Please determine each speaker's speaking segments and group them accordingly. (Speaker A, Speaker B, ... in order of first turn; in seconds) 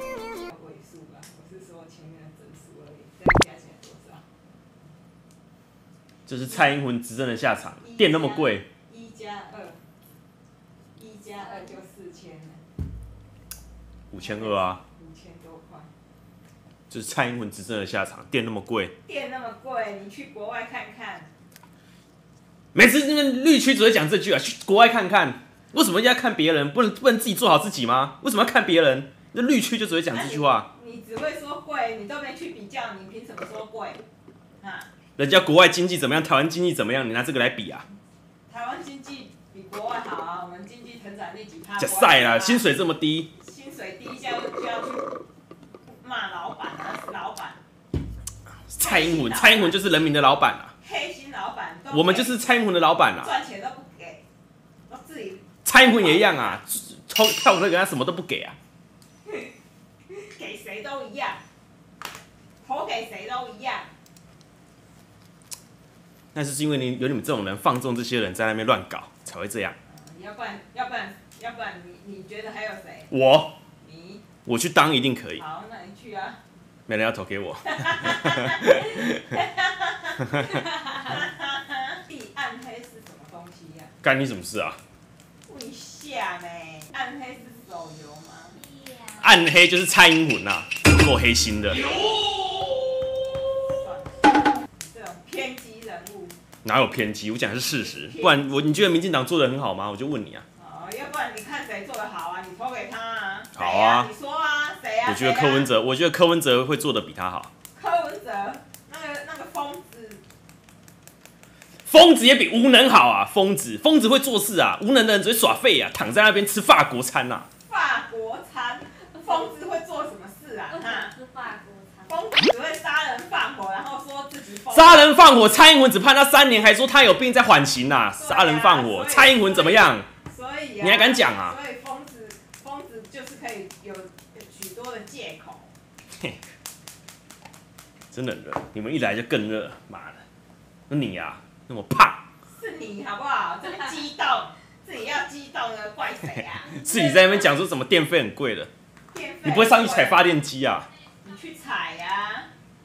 Speaker A: 0.4-4.2, 7.8-9.8, 11.0-12.6, 14.1-15.9, 19.0-21.3, 30.1-34.0, 34.6-34.9, 38.5-42.7, 43.4-45.1, 45.9-47.6, 48.8-49.8, 50.8-52.5, 53.1-54.2, 54.9-56.6, 60.1-61.4, 62.6-63.9, 69.8-73.1, 73.8-74.2, 75.4-76.4, 77.6-83.9, 85.5-88.7, 93.7-94.3, 94.9-96.3, 97.8-98.5, 100.5-105.7, 107.7-110.2, 117.7-121.1, 122.1-125.2, 128.2-135.7, 142.5-147.5, 149.1-150.3, 151.2-152.5
Speaker B: 6.3-8.7, 14.1-14.8, 16.9-18.9, 22.7-30.7, 35.2-37.9, 41.8-43.3, 48.7-50.7, 51.9-53.3, 55.6-58.5, 66.3-69.8, 73.1-73.5, 74.5-75.4, 76.9-79.1, 84.0-84.8, 89.2-91.9, 96.6-100.4, 103.5-104.1, 105.0-107.5, 111.9-117.5, 124.7-130.1, 130.8-131.6, 138.1-140.2, 140.9-142.2, 146.7-148.7, 149.4-150.9
Speaker C: 88.6-89.2, 120.7-122.2